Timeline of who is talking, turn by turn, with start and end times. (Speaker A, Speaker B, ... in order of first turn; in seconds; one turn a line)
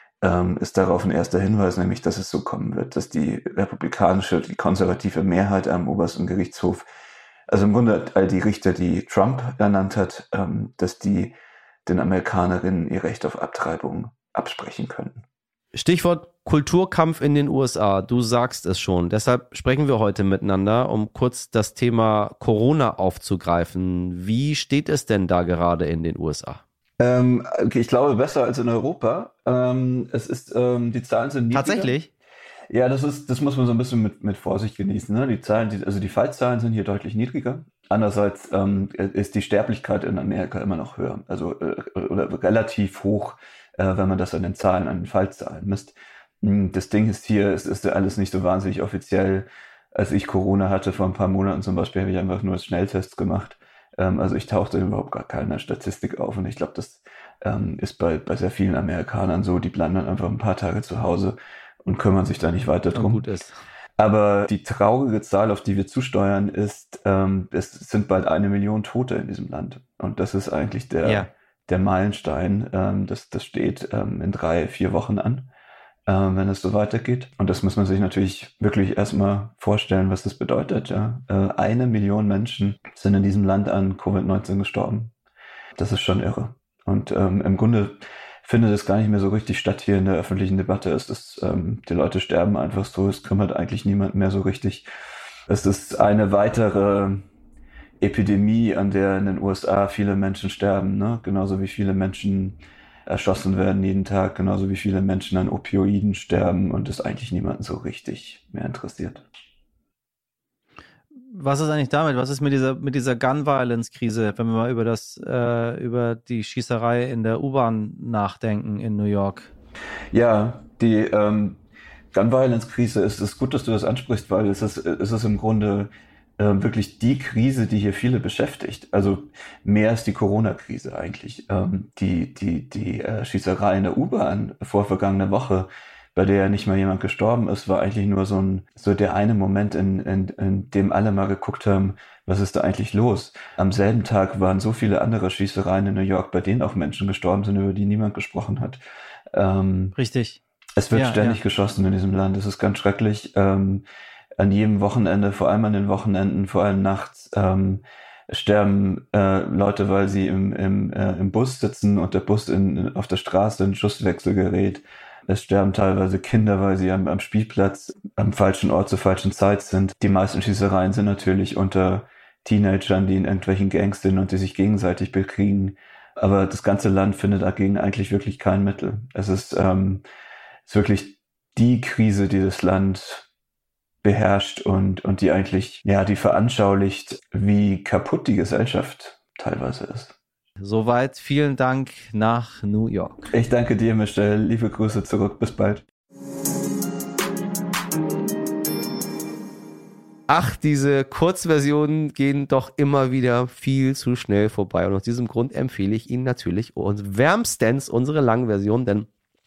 Speaker A: 0.2-6.8
Speaker A: 7.5-15.2
Speaker B: 15.7-26.6
Speaker A: 27.0-32.0
Speaker B: 31.5-32.1
Speaker A: 32.7-63.2
Speaker B: 62.9-63.5
Speaker A: 64.0-75.5
Speaker A: 76.1-85.1
Speaker A: 85.8-94.8
Speaker A: 95.5-97.2
Speaker A: 98.0-109.2
Speaker B: 111.3-119.5
Speaker A: 120.1-121.6
Speaker A: 122.1-148.8
Speaker A: 149.3-149.9
Speaker B: 150.0-150.4
Speaker A: 150.8-153.8
Speaker B: 150.9-151.4
Speaker A: 154.4-180.0
Speaker A: 180.6-183.3
Speaker A: 184.0-190.1
Speaker B: 190.6-193.2
Speaker A: 193.3-195.8
Speaker B: 200.3-209.1